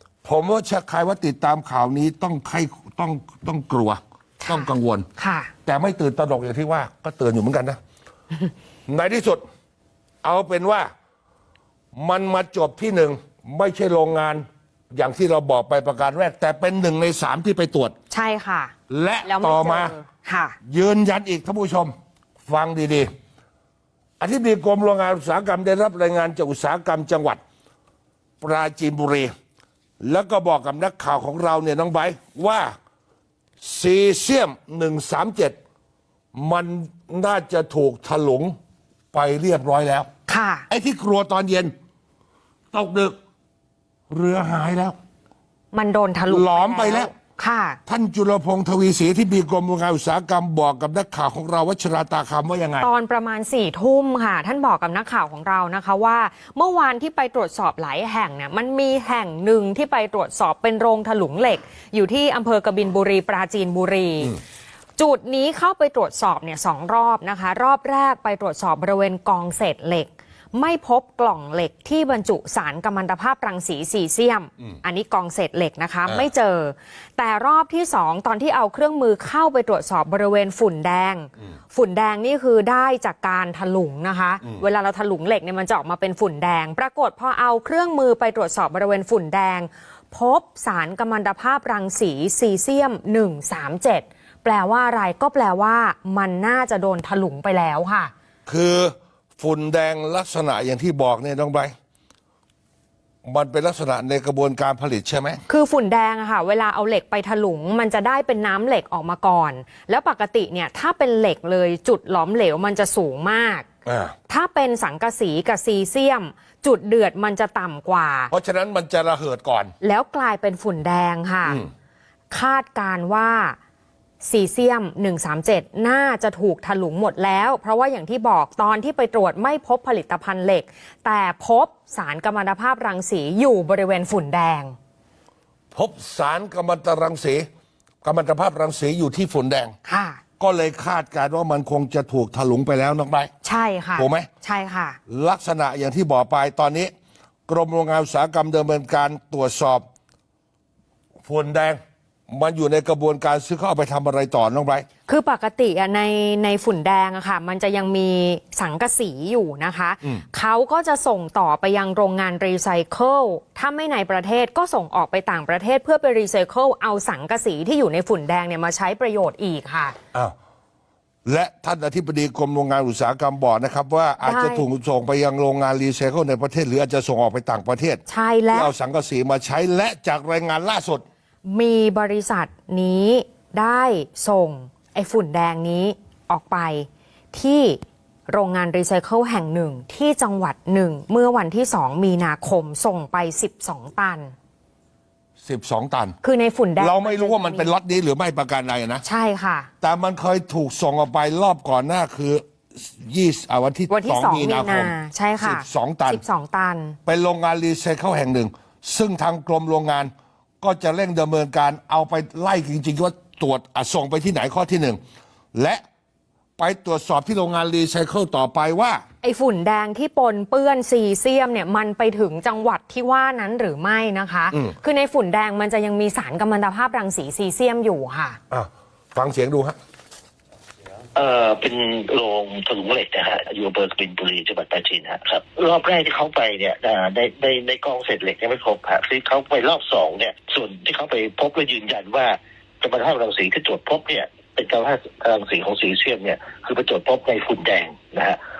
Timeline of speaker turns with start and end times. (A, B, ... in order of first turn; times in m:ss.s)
0:00.2-0:05.1 A
0:04.4-0:05.5 B
0:05.6-0:07.8 A
0:08.9-0:09.4 A
0:10.2-0:10.9 A
0:11.9-0:17.9 A
0:18.1-0:18.7 B
0:18.9-0:19.9 A
0:19.2-0:20.6 B
0:20.6-0:21.9 A
0:22.4-0:23.1 A
0:24.2-0:27.4 A
0:28.4-0:29.3 A
0:30.0-0:32.7 A
0:33.6-0:35.6 A
0:36.3-0:38.6 A
0:39.1-0:40.1 A
0:40.3-0:40.6 B
0:40.7-0:41.7 A
0:42.7-0:43.2 A
0:44.1-0:45.0 A
0:45.7-0:47.8 B
0:46.3-0:47.1 A
0:47.8-0:52.9 A
0:52.8-1:04.4 B
1:05.0-1:38.1 B
1:38.4-1:41.7 A
1:43.2-1:45.4 A
1:45.5-1:53.7 B
1:53.8-1:54.1 A
1:54.3-1:58.3 B
1:58.3-1:59.7 A
1:59.8-2:01.6 B
2:02.3-2:03.6 B
2:04.2-2:14.8 B
2:15.7-2:17.5 A
2:18.0-2:19.7 A
2:19.8-2:20.2 B
2:20.4-2:23.3 A
2:23.4-2:25.0 B
2:24.0-2:24.3 A
2:25.1-2:26.9 A
2:27.5-2:29.8 A
2:31.2-2:34.8 A
2:35.1-2:50.0 B
2:51.2-2:58.0 A
2:54.2-2:54.6 B
2:58.1-2:58.7 B
2:58.5-3:01.0 A
3:01.4-3:14.3 B
3:15.4-3:16.2 A
3:16.2-3:17.7 B
3:16.8-3:19.0 A
3:19.0-3:19.7 B
3:19.8-3:26.2 A
3:23.9-3:27.0 B
3:27.0-3:30.1 A
3:30.6-3:35.0 A
3:35.5-3:35.8 A
3:36.6-3:39.0 A
3:39.2-3:48.4 B
3:48.5-3:49.8 A
3:51.1-4:08.4 C